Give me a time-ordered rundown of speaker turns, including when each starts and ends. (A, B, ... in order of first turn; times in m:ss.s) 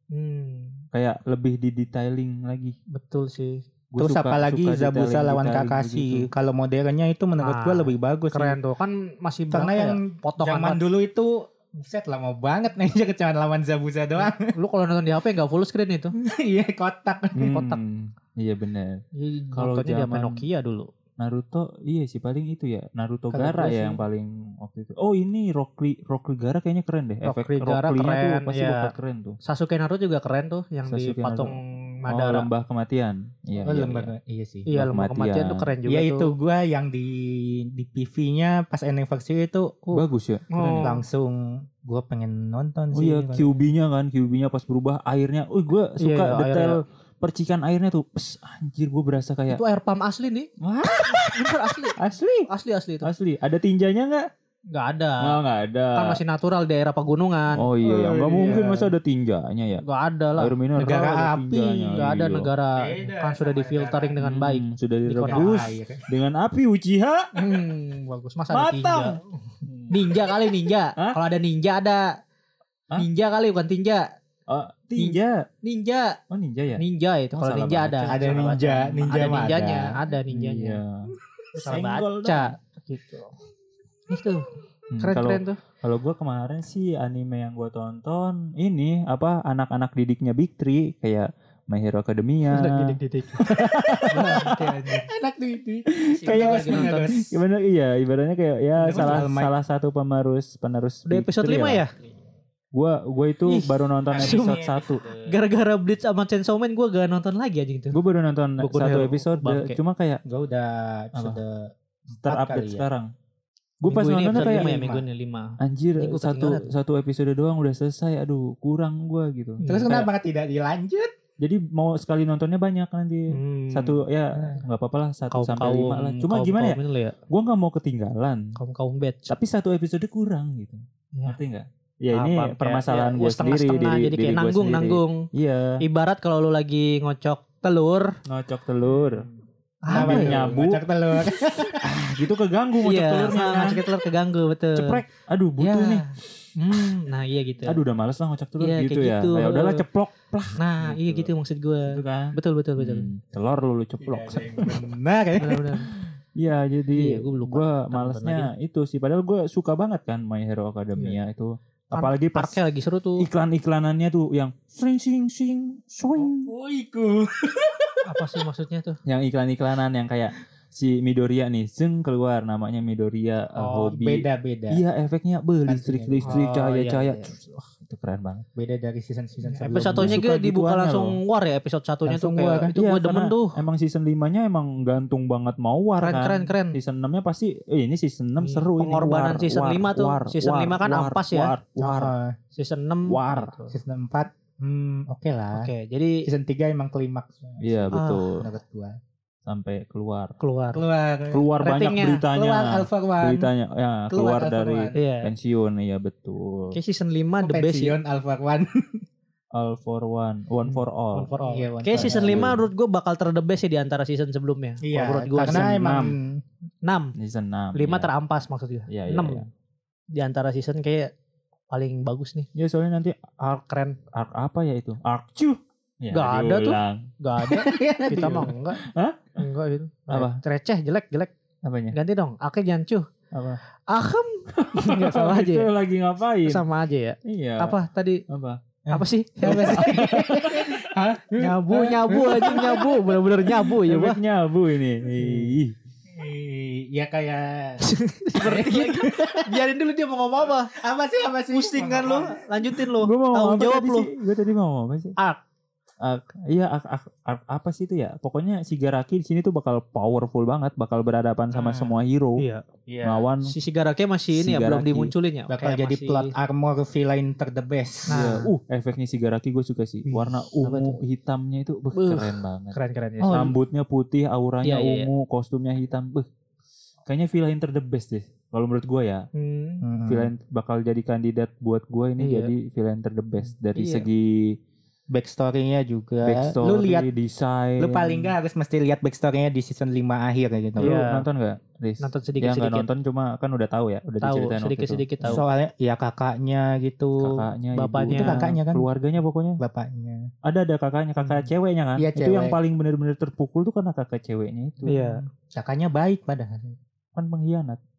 0:00.1-0:00.8 A
0:00.9-0:02.8 B
0:02.9-0:03.6 A
0:03.9-0:06.3 B
0:04.0-0:08.6 C
0:07.4-0:10.8 A
0:09.5-0:14.5 C
0:14.2-0:16.1 A
0:16.2-0:17.6 C
0:17.4-0:19.0 B
0:17.5-0:17.8 A
0:19.2-0:20.9 A
0:19.6-0:20.4 B
0:21.2-0:29.4 B
0:23.3-0:24.0 C
0:27.2-0:32.5 A
0:30.9-0:31.6 B
0:32.1-0:34.1 B
0:33.6-0:34.7 C
0:34.7-0:36.3 A
0:34.8-0:35.7 B
0:35.9-0:40.0 C
0:39.9-0:41.0 B
0:40.5-0:40.9 A
0:40.8-0:43.6 C
0:42.9-0:49.6 B
0:46.0-0:46.8 A
0:49.5-0:50.5 A
0:50.6-0:52.5 B
0:51.0-0:52.0 A
0:52.5-0:53.1 A
0:53.0-0:54.2 B
0:54.7-0:55.4 A
0:55.2-0:56.2 B
0:56.0-0:57.7 A
0:57.6-0:59.8 B
0:57.8-0:58.9 C
0:59.8-1:01.1 A
1:00.4-1:02.5 B
1:00.8-1:02.1 C
1:02.0-1:05.7 A
1:02.8-1:04.2 C
1:04.2-1:07.3 B
1:05.3-1:06.0 C
1:07.3-1:09.4 A
1:08.5-1:10.0 B
1:09.9-1:12.1 A
1:13.0-1:14.1 A
1:14.5-1:15.4 B
1:15.0-1:16.2 A
1:16.3-1:16.8 B
1:16.8-1:20.8 A
1:17.3-1:19.0 B
1:18.1-1:19.9 C
1:20.3-1:22.5 B
1:21.6-1:23.3 A
1:24.1-1:24.5 A
1:24.9-1:34.6 B
1:25.0-1:25.6 A
1:32.5-1:33.5 A
1:34.1-1:35.0 A
1:34.1-1:37.4 C
1:35.9-1:41.8 B
1:36.2-1:37.2 A
1:38.8-1:39.5 C
1:38.9-1:39.2 A
1:41.1-1:41.9 A
1:42.7-1:45.0 B
1:43.5-1:44.7 A
1:44.1-1:45.4 C
1:45.3-1:48.0 A
1:47.9-1:50.2 B
1:48.6-1:49.8 A
1:50.3-1:52.8 C
1:52.2-1:53.1 B
1:53.8-1:54.7 B
1:53.9-1:56.7 A
1:54.3-1:55.0 C
1:55.6-2:00.1 B
1:59.6-2:00.0 A
1:59.6-2:01.1 C
2:01.4-2:06.8 B
2:03.3-2:04.0 A
2:05.3-2:07.2 A
2:07.3-2:08.5 B
2:08.6-2:09.4 A
2:09.3-2:15.8 B
2:12.1-2:15.3 A
2:15.8-2:18.1 A
2:18.3-2:19.3 B
2:19.0-2:19.3 C
2:19.8-2:20.6 A
2:19.9-2:21.8 C
2:19.9-2:20.8 B
2:21.8-2:23.8 B
2:22.8-2:25.0 A
2:24.8-2:26.0 B
2:25.6-2:27.8 A
2:27.7-2:31.3 B
2:28.6-2:29.8 A
2:30.6-2:33.1 A
2:31.9-2:34.9 B
2:34.0-2:35.7 C
2:35.4-2:35.9 A
2:35.9-2:42.6 B
2:36.9-2:38.5 A
2:41.9-2:43.3 A
2:43.2-2:46.5 B
2:46.2-2:48.3 C
2:48.0-2:49.0 A
2:49.1-2:58.4 B
2:53.6-2:53.9 A
2:53.9-2:54.8 C
2:55.7-2:56.4 C
2:56.2-2:57.3 A
2:58.6-3:00.2 C
2:59.4-3:03.6 A
2:59.8-3:01.2 B
3:02.1-3:02.7 C
3:02.7-3:12.1 B
3:06.0-3:06.8 A
3:08.4-3:11.5 A
3:11.8-3:12.4 C
3:12.6-3:13.7 A
3:13.1-3:13.5 B
3:13.7-3:15.7 C
3:15.5-3:16.3 A
3:16.2-3:19.0 C
3:17.6-3:18.4 B
3:17.9-3:18.3 A
3:19.5-3:20.4 B
3:20.4-3:20.8 A
3:20.7-3:21.5 C
3:21.3-3:26.8 B
3:21.6-3:22.2 A
3:22.3-3:23.5 C
3:24.1-3:25.0 C
3:25.0-3:25.3 A
3:26.7-3:28.0 A
3:27.4-3:29.0 C
3:29.5-3:31.3 B
3:30.7-3:35.7 A
3:31.3-3:32.6 C
3:31.9-3:32.6 B
3:34.8-3:36.4 C
3:35.4-3:36.2 B
3:36.8-3:37.1 A
3:37.2-3:38.1 B
3:37.8-3:39.5 A
3:38.9-3:39.5 B
3:40.1-3:41.1 A
3:41.7-3:42.5 A
3:42.6-3:43.4 B
3:43.4-3:44.0 A
3:44.1-3:49.4 B
3:46.1-3:48.8 A
3:47.7-3:48.5 C
3:49.4-3:51.3 A
3:50.1-3:50.4 B
3:51.6-3:52.0 B
3:51.9-3:53.1 A
3:53.3-3:53.6 B
3:53.9-3:55.7 A
3:54.5-3:56.6 B
3:56.5-3:58.2 A
3:57.2-3:57.8 B
3:58.3-3:58.6 B
3:58.8-4:03.3 C
3:58.9-3:59.9 A
3:59.5-4:00.9 B
4:01.4-4:04.2 A
4:03.7-4:05.8 B
4:06.1-4:07.8 C
4:07.8-4:10.7 A
4:08.4-4:09.5 C
4:10.7-4:12.4 C
4:11.5-4:14.1 A
4:13.0-4:15.2 B
4:16.0-4:22.4 B
4:21.5-4:22.0 C
4:22.4-4:22.6 A
4:22.9-4:23.3 C
4:23.0-4:23.5 B
4:23.4-4:26.3 A
4:24.3-4:25.1 B
4:25.5-4:28.2 C
4:28.1-4:28.5 A
4:28.1-4:36.3 B
4:30.1-4:31.0 A
4:31.9-4:33.5 A
4:33.2-4:33.5 C
4:34.6-4:35.1 A
4:37.1-4:39.3 B
4:39.4-4:39.8 A
4:39.8-4:40.3 C
4:40.1-4:44.6 B
4:42.2-4:42.5 A
4:43.8-4:44.1 A
4:45.1-4:47.1 C
4:46.2-4:48.3 B
4:47.8-4:51.0 C
4:50.8-4:51.2 A
4:50.8-4:55.4 B
4:52.0-4:52.9 A
4:54.2-4:55.4 A
4:55.3-4:57.4 C
4:57.2-4:59.6 B
4:57.8-4:58.4 A
4:58.1-4:58.8 C
4:59.6-5:00.3 C
5:00.4-5:05.0 B
5:01.2-5:01.5 A
5:02.0-5:02.6 C
5:04.9-5:05.2 A
5:04.9-5:06.8 C
5:07.2-5:07.8 B